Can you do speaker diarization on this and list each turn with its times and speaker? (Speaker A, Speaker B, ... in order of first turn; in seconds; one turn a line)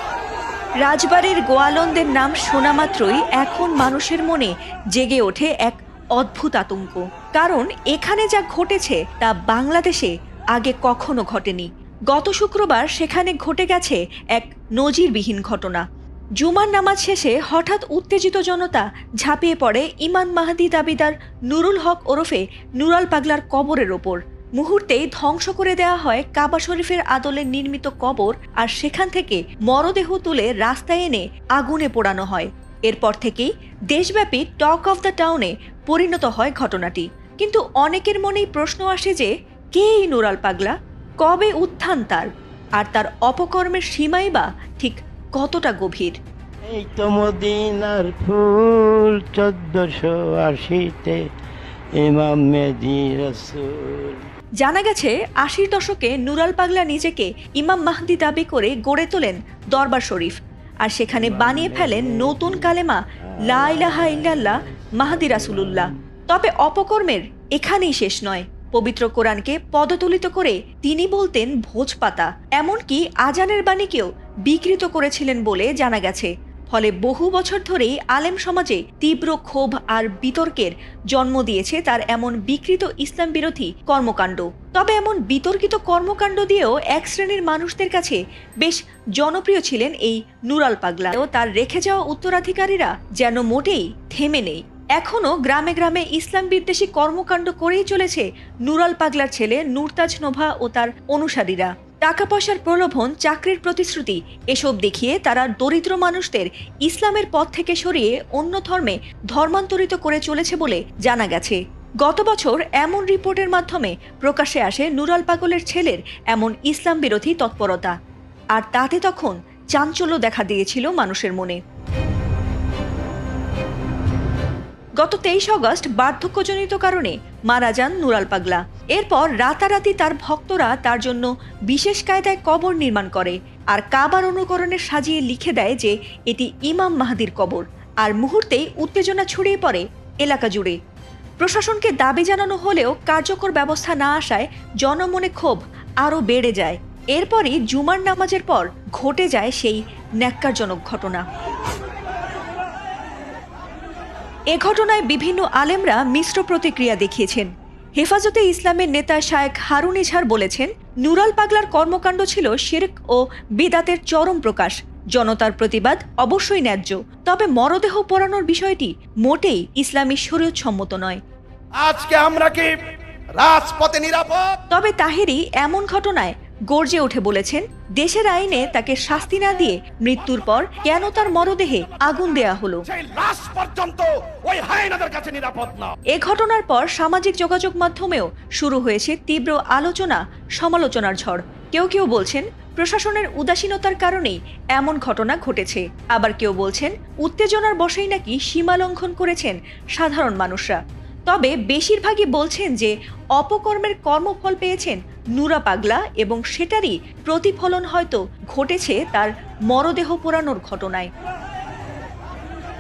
Speaker A: 0.8-15.8
Speaker A: 16.4-46.2
Speaker B: 46.7-51.2
Speaker B: 52.0-54.2
Speaker A: 54.6-117.9
Speaker B: 61.1-62.7
Speaker B: 63.3-65.9
Speaker A: 118.5-121.6
Speaker A: 125.0-140.8
Speaker A: 141.4-151.2
Speaker A: 154.5-171.2
Speaker C: 171.8-174.6
Speaker A: 174.7-182.8
Speaker C: 182.9-185.9
Speaker A: 186.1-211.1